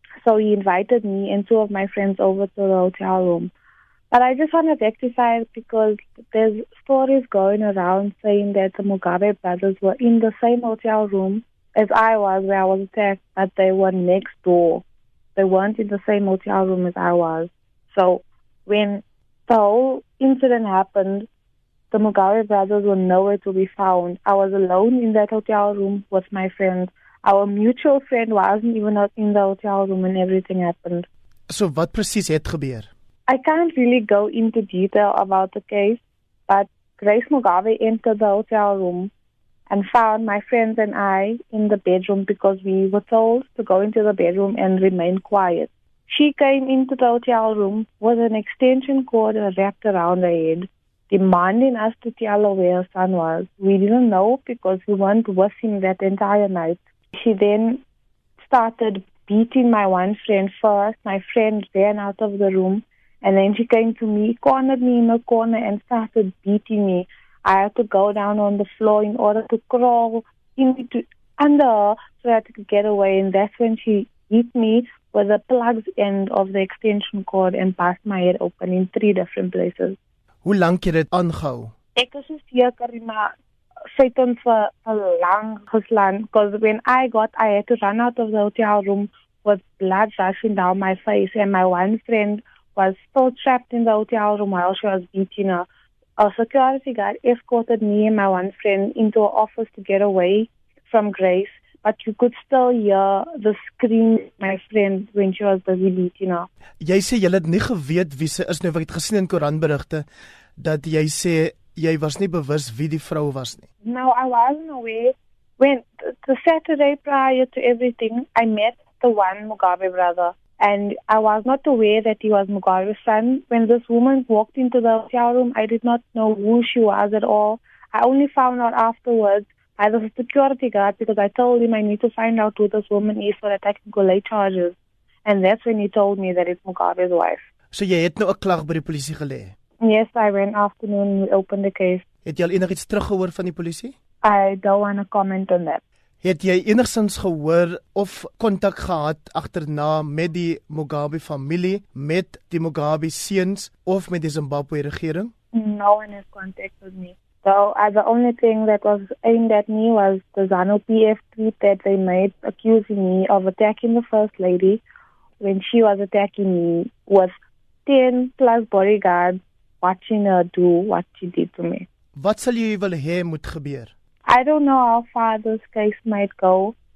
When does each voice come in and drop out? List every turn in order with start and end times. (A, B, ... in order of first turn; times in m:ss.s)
0:00.2-0:03.5 A
0:04.1-0:14.8 A
0:15.4-0:21.3 A
0:21.9-0:31.1 A
0:31.5-0:32.9 B
0:33.3-0:39.1 A
0:39.7-0:57.8 A
0:58.4-1:20.0 A
1:20.4-1:21.7 B
1:22.0-1:23.3 A
1:23.9-1:35.7 A
1:36.2-1:46.5 A
1:46.8-1:50.0 B
1:50.6-1:53.6 B
1:53.8-2:17.4 A
2:17.7-2:19.5 B
2:19.8-2:22.0 A
2:22.2-2:23.9 B
2:24.2-2:25.8 A
2:26.2-2:35.3 B
2:35.5-2:44.8 A
2:45.4-2:47.3 A
2:47.9-2:51.9 A
2:52.2-2:53.9 B
2:54.3-2:56.8 A